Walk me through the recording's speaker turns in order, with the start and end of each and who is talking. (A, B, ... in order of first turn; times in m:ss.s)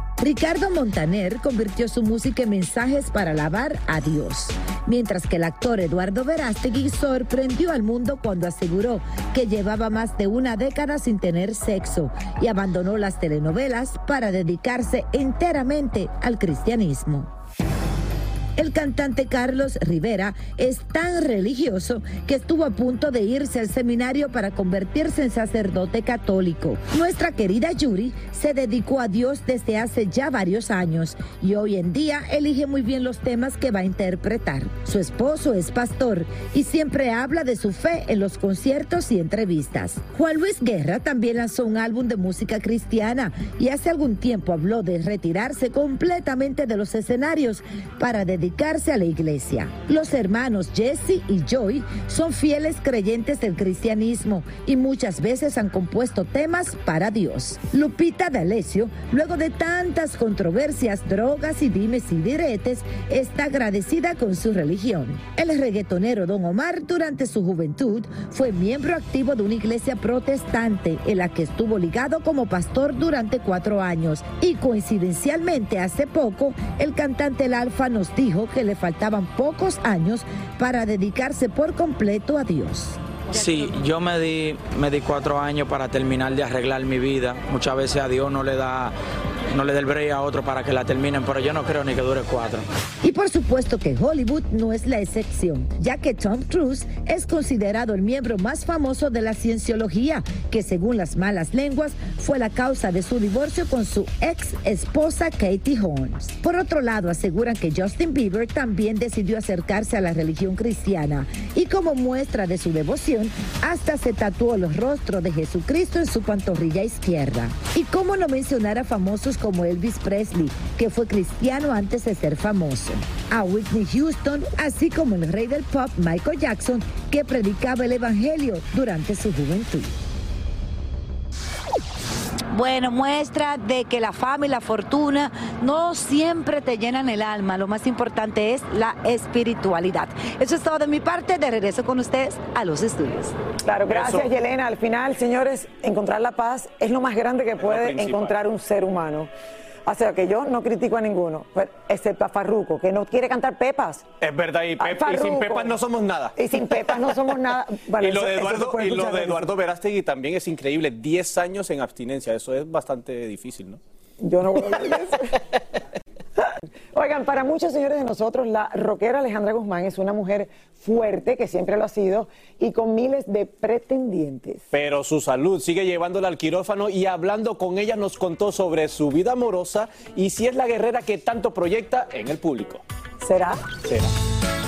0:00.2-0:17.3 A
0:18.6-1:23.0 A
1:23.3-1:28.9 B
1:29.5-1:32.6 B
1:33.0-2:09.9 A
2:12.5-2:23.3 C
2:23.6-2:29.3 D
2:23.9-2:24.3 E
2:27.6-2:28.3 E
2:29.8-2:34.0 D
2:34.2-2:36.9 E
2:34.8-2:35.7 D
2:36.4-2:39.5 D
2:38.0-2:43.8 E
2:44.2-2:45.3 D
2:46.4-2:54.6 D
2:54.7-3:02.8 E
3:03.2-3:03.6 D